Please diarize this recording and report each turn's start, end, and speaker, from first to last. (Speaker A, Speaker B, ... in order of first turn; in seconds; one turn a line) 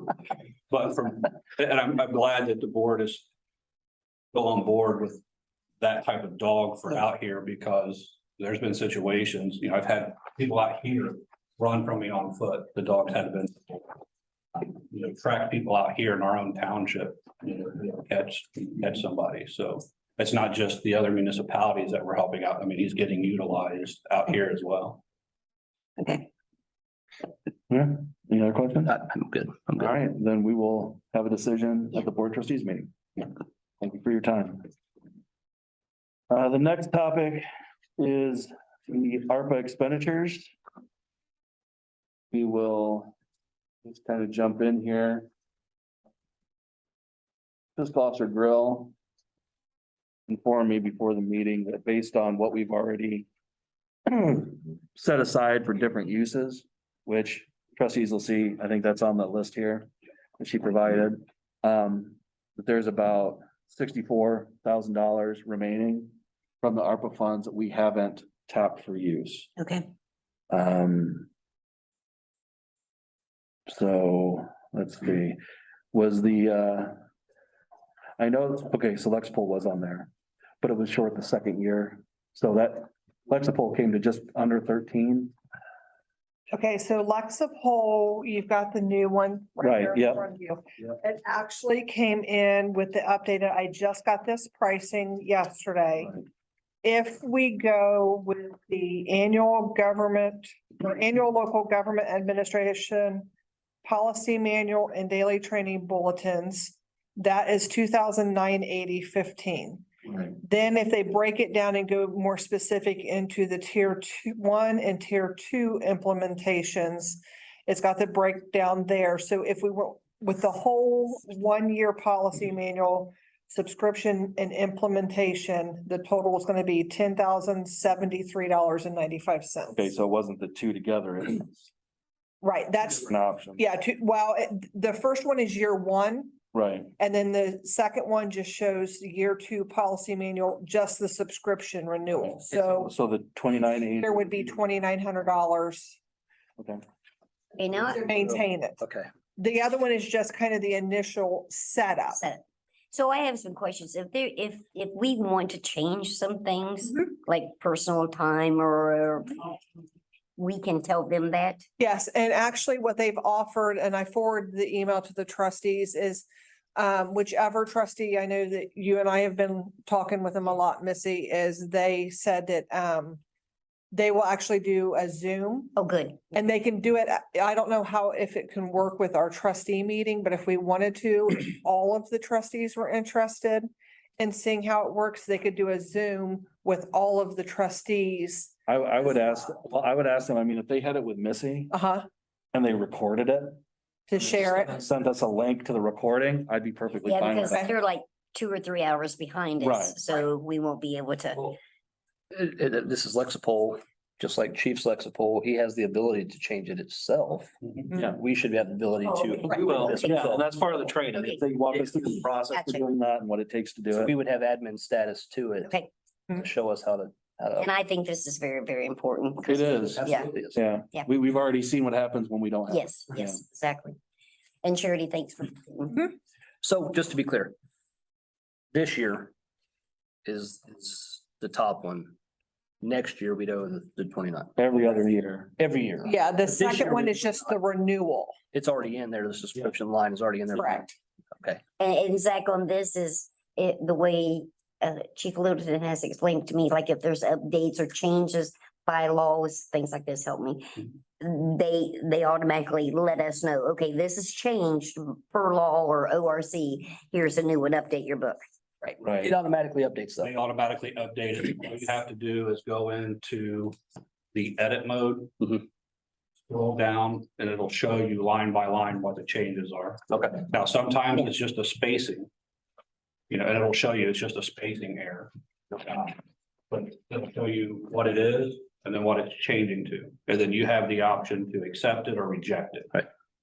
Speaker A: 0.7-3.3
Speaker A: 4.3-5.2
Speaker A: 5.8-13.9
Speaker A: 14.6-25.0
Speaker B: 26.0-26.2
Speaker C: 27.7-29.0
Speaker D: 28.9-29.9
Speaker C: 29.8-32.9
Speaker C: 33.8-34.7
Speaker C: 36.3-37.4
Speaker C: 38.0-40.5
Speaker C: 42.3-43.1
Speaker C: 43.8-45.3
Speaker C: 47.8-48.9
Speaker C: 50.3-53.3
Speaker C: 54.1-69.5
Speaker B: 69.6-69.9
Speaker C: 70.5-71.3
Speaker C: 73.7-75.4
Speaker C: 75.9-77.0
Speaker C: 78.2-80.1
Speaker C: 80.6-85.3
Speaker E: 86.5-96.2
Speaker C: 89.6-90.2
Speaker E: 96.8-103.3
Speaker E: 103.8-109.8
Speaker E: 110.4-129.9
Speaker C: 129.8-131.6
Speaker E: 132.4-136.4
Speaker C: 133.0-133.6
Speaker C: 136.5-136.9
Speaker E: 137.0-142.9
Speaker C: 142.6-144.3
Speaker E: 143.6-146.0
Speaker C: 146.6-146.8
Speaker B: 147.6-148.0
Speaker E: 147.9-148.8
Speaker D: 148.2-149.1
Speaker E: 149.4-152.2
Speaker B: 152.1-159.6
Speaker B: 160.4-161.6
Speaker E: 161.8-173.2
Speaker E: 173.9-175.7
Speaker B: 175.8-176.3
Speaker E: 176.3-183.7
Speaker E: 184.2-188.5
Speaker C: 188.7-191.7
Speaker E: 191.7-192.0
Speaker C: 192.5-193.6
Speaker E: 194.1-194.8
Speaker C: 194.4-197.7
Speaker B: 197.1-201.6
Speaker C: 199.6-200.0
Speaker D: 202.3-210.5
Speaker B: 209.0-210.3
Speaker C: 209.4-214.1
Speaker B: 211.1-211.4
Speaker D: 211.7-212.5
Speaker B: 212.5-212.8
Speaker D: 213.9-217.7
Speaker B: 217.6-220.3
Speaker C: 219.5-223.4
Speaker D: 219.8-220.6
Speaker B: 222.7-224.0
Speaker B: 224.6-226.0
Speaker D: 226.6-227.5
Speaker D: 228.7-229.3
Speaker D: 230.2-232.1
Speaker D: 232.8-234.5
Speaker C: 234.6-235.5
Speaker D: 235.6-237.4
Speaker E: 236.0-238.4
Speaker D: 238.5-241.6
Speaker E: 240.5-240.9
Speaker B: 241.8-258.4
Speaker C: 259.0-259.3
Speaker D: 259.2-260.3
Speaker A: 260.2-263.8
Speaker A: 264.3-265.4
Speaker A: 266.5-272.3
Speaker D: 270.1-270.4
Speaker A: 273.3-276.2
Speaker A: 276.7-283.0